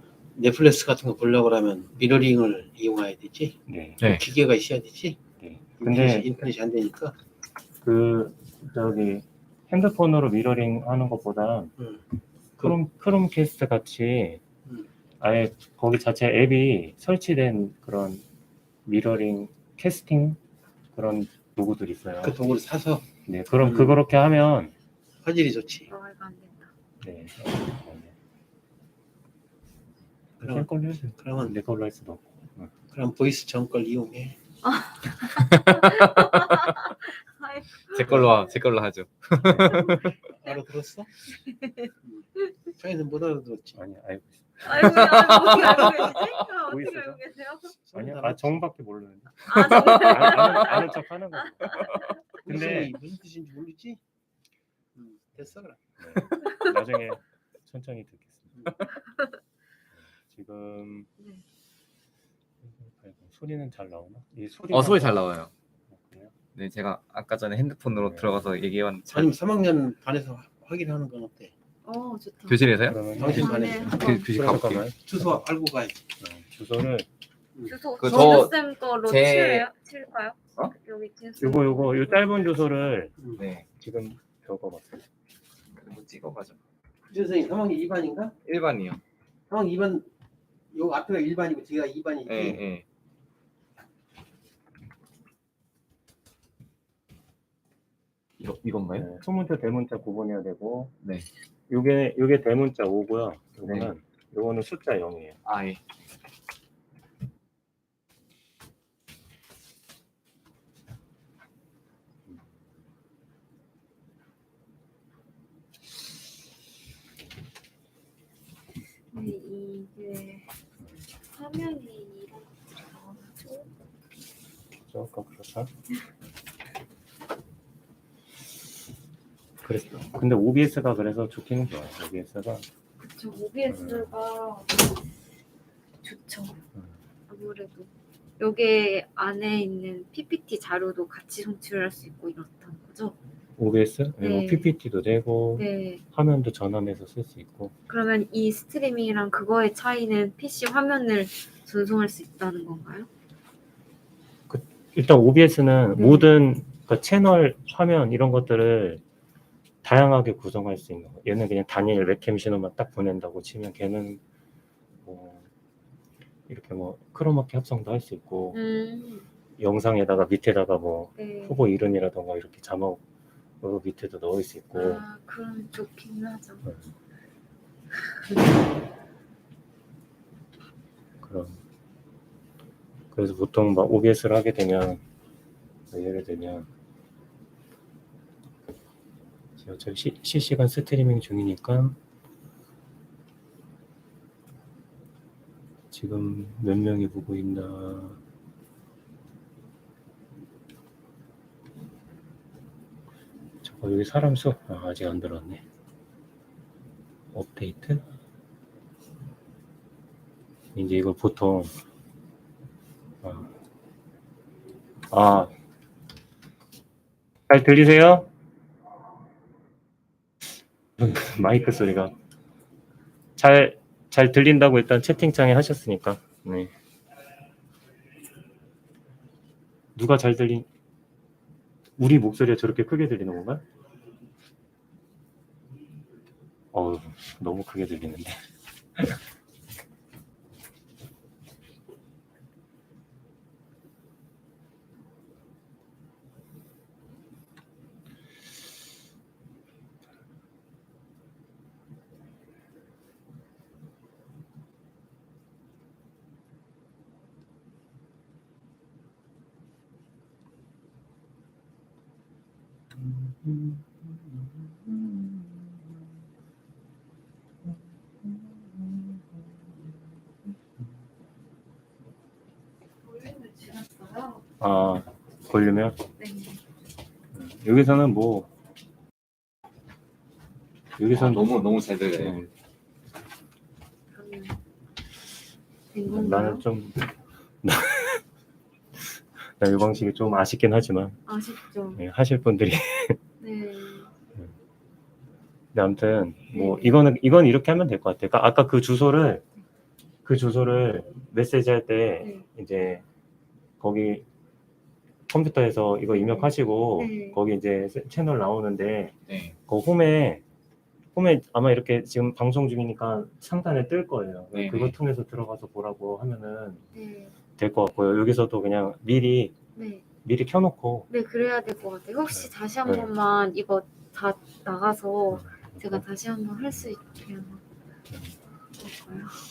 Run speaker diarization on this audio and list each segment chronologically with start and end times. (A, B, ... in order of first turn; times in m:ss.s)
0:00.3-0:05.2 A
0:03.7-0:04.0 B
0:05.4-0:06.3 B
0:05.8-0:07.1 A
0:07.8-0:11.7 B
0:12.6-0:14.4 B
0:15.2-0:18.2 B
0:18.8-0:20.4 B
0:20.9-0:22.5 B
0:22.2-0:23.0 A
0:23.2-0:24.7 B
0:23.6-0:24.0 A
0:25.2-0:25.9 A
0:25.9-0:26.7 C
0:27.0-0:28.1 B
0:30.4-0:32.7 B
0:30.4-0:31.5 A
0:32.9-0:34.4 A
0:34.6-0:38.6 C
0:35.5-0:36.7 D
0:37.9-0:40.2 D
0:39.5-0:40.0 B
0:40.1-0:41.1 A
0:41.5-0:41.9 C
0:42.8-0:43.8 A
0:43.8-0:45.3 B
0:44.6-0:47.7 C
0:44.8-0:46.1 D
0:46.0-0:47.2 B
0:47.8-0:48.6 A
0:47.9-0:51.9 B
0:49.4-0:51.0 C
0:49.6-0:50.7 D
0:51.6-0:52.2 C
0:52.4-0:54.0 A
0:52.4-0:52.9 B
0:54.9-0:55.8 A
0:56.0-0:58.7 B
1:00.0-1:01.1 B
1:02.6-1:05.2 B
1:04.7-1:05.5 D
1:05.9-1:06.3 B
1:06.5-1:09.3 D
1:08.0-1:08.4 B
1:09.1-1:11.5 A
1:11.8-1:12.6 C
1:12.5-1:13.0 D
1:12.8-1:13.6 B
1:13.2-1:13.9 A
1:13.2-1:14.3 C
1:13.8-1:14.9 D
1:14.2-1:15.0 B
1:15.0-1:16.0 A
1:16.2-1:17.1 B
1:17.6-1:18.4 A
1:17.7-1:22.6 C
1:18.0-1:19.7 D
1:21.4-1:23.1 B
1:23.4-1:23.6 D
1:23.7-1:25.0 B
1:25.7-1:26.6 D
1:27.1-1:28.3 A
1:28.4-1:29.0 D
1:29.5-1:30.1 A
1:30.7-1:32.6 A
1:32.3-1:32.8 D
1:38.4-1:39.1 D
1:39.0-1:40.9 B
1:41.7-1:45.4 B
1:43.6-1:43.9 D
1:45.4-1:45.8 D
1:59.1-2:00.5 C
2:01.3-2:03.7 C
2:04.9-2:05.7 B
2:09.6-2:12.6 B
2:13.0-2:15.0 C
2:13.7-2:14.1 B
2:16.0-2:16.6 C
2:17.3-2:23.1 C
2:23.6-2:27.7 B
2:24.2-2:24.7 C
2:25.6-2:26.0 C
2:27.9-2:33.1 C
2:34.5-2:39.0 B
2:35.9-2:36.3 C
2:39.8-2:44.2 B
2:45.0-2:45.5 B
2:46.5-2:48.6 B
2:48.5-2:49.3 C
2:49.6-2:53.0 B
2:51.2-2:51.6 C
2:53.6-2:55.0 B
2:54.7-2:56.6 C
2:58.1-2:58.4 C
3:01.2-3:01.6 B
3:03.1-3:05.0 B
3:05.9-3:06.7 B
3:09.6-3:12.0 B
3:15.9-3:18.2 B
3:23.6-3:25.6 B
3:27.3-3:28.0 B
3:30.7-3:31.7 B
3:33.2-3:33.5 B
3:35.1-3:35.5 B
3:37.5-3:38.3 B
3:41.0-3:42.1 B
3:43.4-3:46.7 B
3:49.9-3:50.7 B
3:52.0-3:53.6 B
3:56.7-3:58.4 B
4:23.0-4:23.9 B
4:24.8-4:25.6 B
4:28.2-4:28.8 B
4:33.1-4:34.4 C
4:34.6-4:36.0 B
4:36.2-4:36.6 C
4:37.3-4:38.5 B
4:41.0-4:42.5 B
4:41.1-4:42.4 D
4:44.1-4:44.6 C
4:45.9-4:46.6 C
4:46.1-4:48.2 B
4:49.6-4:51.2 B
4:51.2-4:52.0 C
4:52.0-4:53.2 B
4:53.4-4:54.1 C
4:55.7-4:59.4 B
4:56.5-4:57.0 C
5:00.2-5:03.0 B
5:03.8-5:04.2 B
5:05.3-5:09.1 B
5:06.1-5:07.4 C
5:09.3-5:09.5 D
5:09.7-5:10.4 B
5:11.1-5:16.8 B
5:14.5-5:14.9 D
5:16.9-5:17.3 C
5:17.6-5:19.5 B
5:19.7-5:20.0 C
5:20.2-5:21.1 B
5:21.1-5:27.6 C
5:22.3-5:23.1 B
5:25.3-5:26.0 B
5:28.8-5:29.4 C